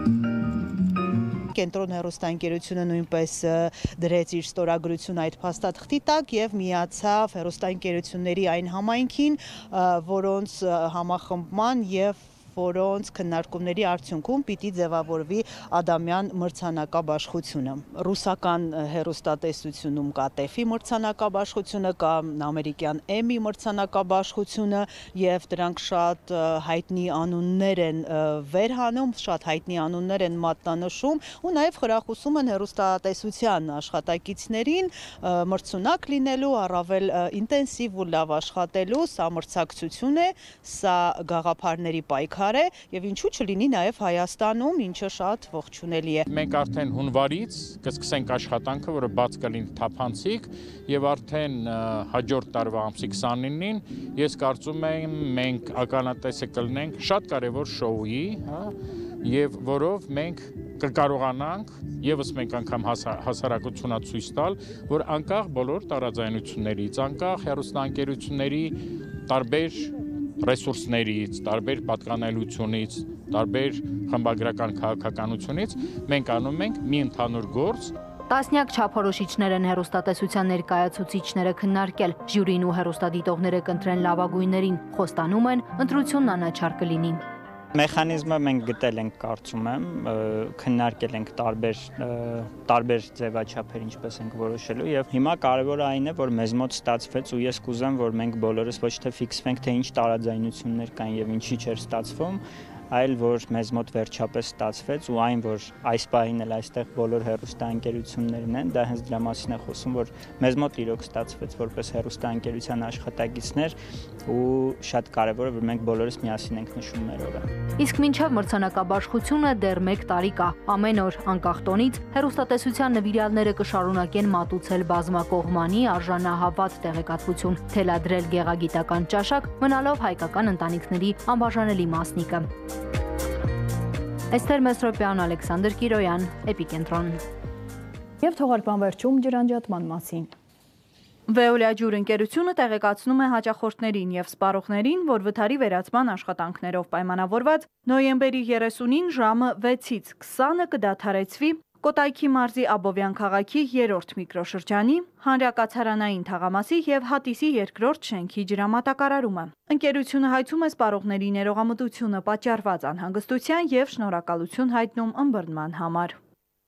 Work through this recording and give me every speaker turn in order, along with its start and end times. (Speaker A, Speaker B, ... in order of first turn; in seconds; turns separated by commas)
Speaker A: 1.5-46.2, Speaker B: 46.2-77.9, Speaker C: 78.3-87.2, Speaker B: 87.7-117.5, Speaker C: 117.8-132.5, Speaker C: 134.3-137.2, Speaker D: 138.2-140.3, Speaker E: 141.3-166.2